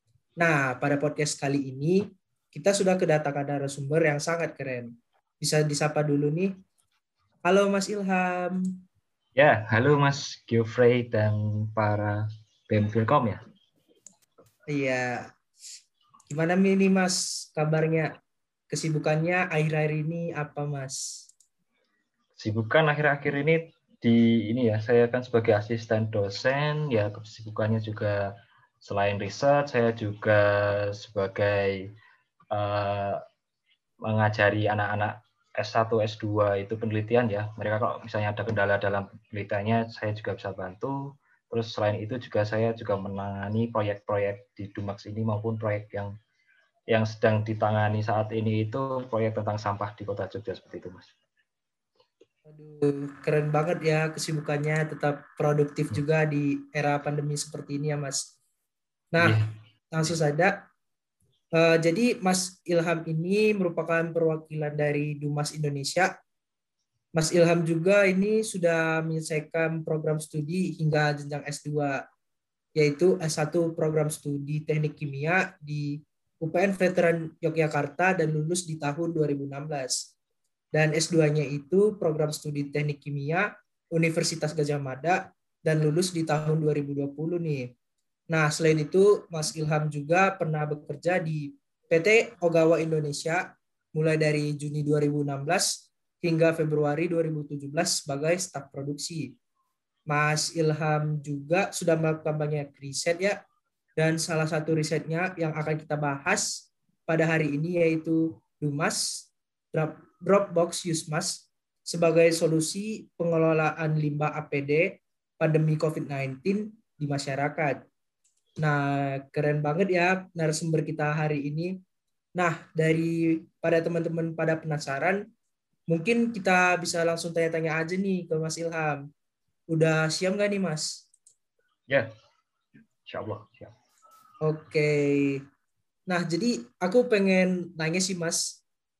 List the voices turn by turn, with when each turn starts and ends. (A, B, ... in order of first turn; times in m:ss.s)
0:00.4-0:06.6 A
0:07.4-0:08.6 A
0:09.4-0:13.4 B
0:14.7-0:15.3 A
0:16.3-0:18.1 A
0:18.7-0:21.2 A
0:22.4-0:28.2 B
0:28.8-0:31.9 B
0:32.5-0:33.2 B
0:34.0-0:46.1 B
0:46.9-0:51.1 B
0:52.5-0:58.3 A
0:59.1-0:59.4 A
0:59.2-0:59.5 B
0:59.9-1:00.6 A
1:01.5-1:06.1 A
1:07.1-1:12.0 A
1:12.8-1:20.1 A
1:20.7-1:27.7 A
1:28.3-1:39.3 A
1:40.1-1:43.4 A
1:44.0-1:57.8 A
1:58.6-2:01.7 A
2:02.4-2:05.2 A
2:05.9-2:09.0 A
2:09.7-2:11.0 A
2:13.1-2:13.7 B
2:14.4-2:15.4 A
2:16.1-2:18.6 A